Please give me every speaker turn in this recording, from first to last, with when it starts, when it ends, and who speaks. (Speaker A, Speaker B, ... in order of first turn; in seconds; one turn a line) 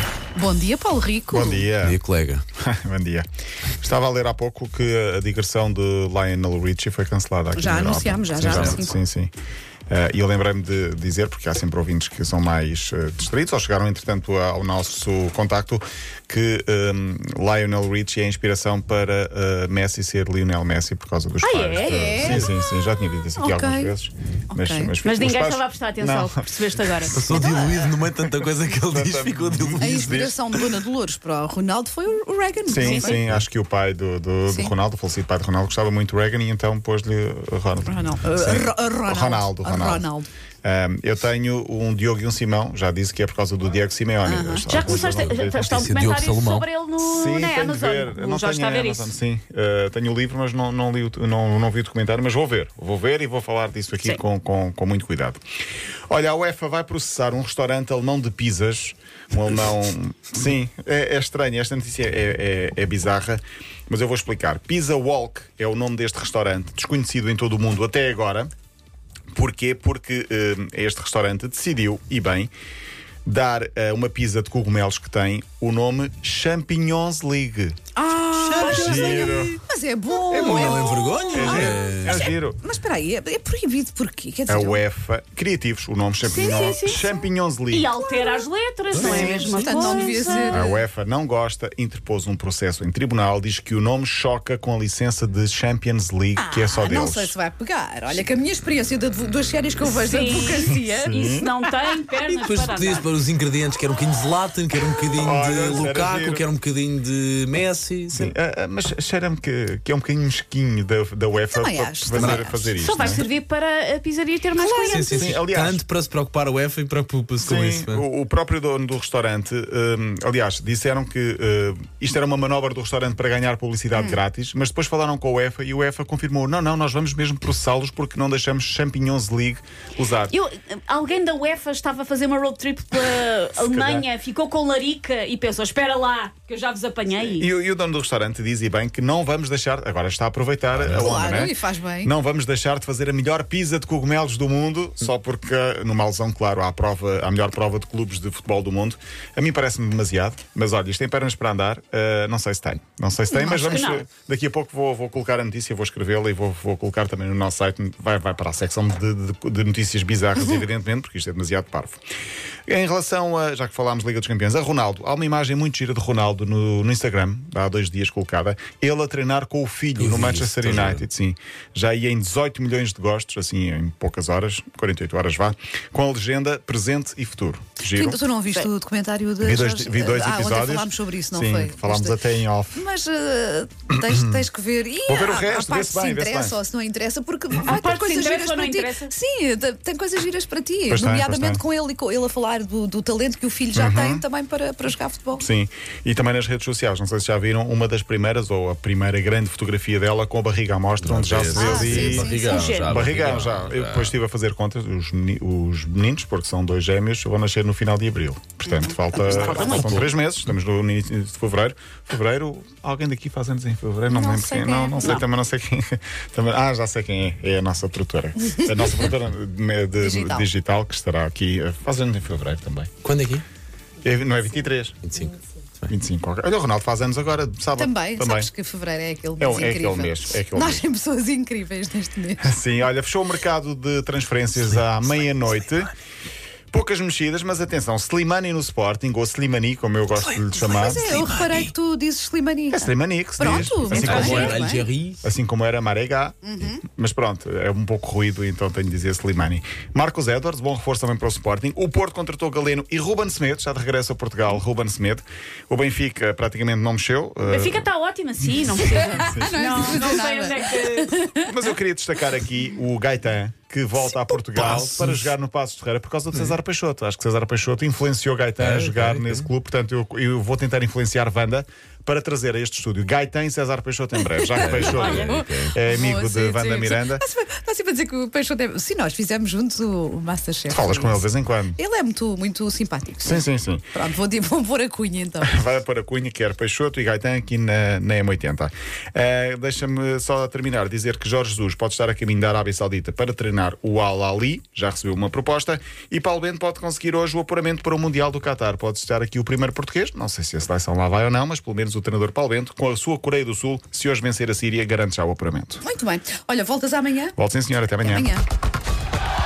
Speaker A: 0.4-1.7
Speaker B: 1.3-2.0
Speaker C: 1.8-2.5
Speaker B: 2.6-3.3
Speaker B: 3.8-9.3
Speaker A: 7.6-9.0
Speaker C: 8.4-8.8
Speaker B: 9.9-30.6
Speaker D: 21.4-22.2
Speaker A: 21.8-22.5
Speaker C: 22.1-22.4
Speaker A: 23.4-23.9
Speaker A: 24.5-24.9
Speaker D: 25.0-27.7
Speaker C: 27.1-30.1
Speaker A: 29.8-33.2
Speaker B: 32.7-40.1
Speaker D: 32.8-33.1
Speaker C: 33.1-33.4
Speaker A: 34.5-34.7
Speaker A: 37.8-40.3
Speaker B: 40.6-45.9
Speaker A: 44.2-44.7
Speaker D: 44.7-49.2
Speaker C: 45.6-46.7
Speaker B: 47.0-55.4
Speaker B: 56.1-68.5
Speaker B: 69.3-72.5
Speaker B: 73.3-77.8
Speaker A: 78.0-84.8
Speaker C: 78.4-79.5
Speaker B: 78.5-79.6
Speaker D: 78.9-79.2
Speaker D: 80.1-81.0
Speaker C: 80.3-82.2
Speaker B: 81.3-82.6
Speaker B: 84.5-87.9
Speaker D: 86.2-87.1
Speaker D: 87.7-90.6
Speaker A: 88.0-90.8
Speaker C: 88.9-90.0
Speaker B: 90.5-97.3
Speaker A: 96.4-101.3
Speaker D: 99.9-103.0
Speaker B: 100.7-101.5
Speaker C: 102.2-108.3
Speaker B: 105.2-106.5
Speaker B: 108.1-113.3
Speaker A: 111.4-112.7
Speaker C: 112.1-112.5
Speaker D: 112.8-115.3
Speaker C: 114.6-118.0
Speaker B: 115.0-115.8
Speaker B: 117.4-130.3
Speaker D: 130.3-137.5
Speaker B: 133.6-134.1
Speaker B: 137.2-162.0
Speaker C: 140.7-141.1
Speaker A: 140.9-142.1
Speaker A: 153.3-153.9
Speaker D: 153.7-154.1
Speaker B: 162.7-178.2
Speaker C: 170.0-171.0
Speaker A: 177.8-195.4
Speaker B: 179.4-182.8
Speaker B: 183.9-184.4
Speaker B: 185.1-186.6
Speaker D: 187.6-189.1
Speaker B: 190.9-191.6
Speaker B: 193.8-194.2
Speaker B: 195.4-222.9
Speaker C: 201.0-204.2
Speaker A: 201.6-202.6
Speaker D: 202.4-202.9
Speaker D: 209.1-210.1
Speaker C: 209.3-210.1
Speaker A: 214.1-215.2
Speaker A: 220.0-220.5
Speaker C: 223.0-223.4
Speaker B: 224.0-225.0
Speaker C: 225.0-225.9
Speaker B: 225.9-228.5
Speaker A: 227.7-232.5
Speaker B: 229.4-230.8
Speaker B: 232.4-235.9
Speaker B: 236.7-241.1
Speaker C: 240.2-241.7
Speaker A: 240.6-244.9
Speaker B: 242.7-244.7
Speaker C: 243.9-245.2
Speaker D: 244.2-244.5
Speaker B: 245.2-257.9
Speaker A: 246.4-246.8
Speaker D: 257.4-261.1
Speaker B: 258.9-259.6
Speaker A: 259.0-261.5
Speaker B: 261.4-277.2
Speaker C: 264.1-265.3
Speaker C: 268.6-269.5
Speaker A: 274.2-285.6
Speaker C: 274.6-275.8
Speaker B: 280.7-281.8
Speaker B: 283.2-283.9
Speaker B: 285.4-305.8
Speaker A: 305.8-307.4
Speaker B: 307.4-308.3
Speaker A: 308.0-308.4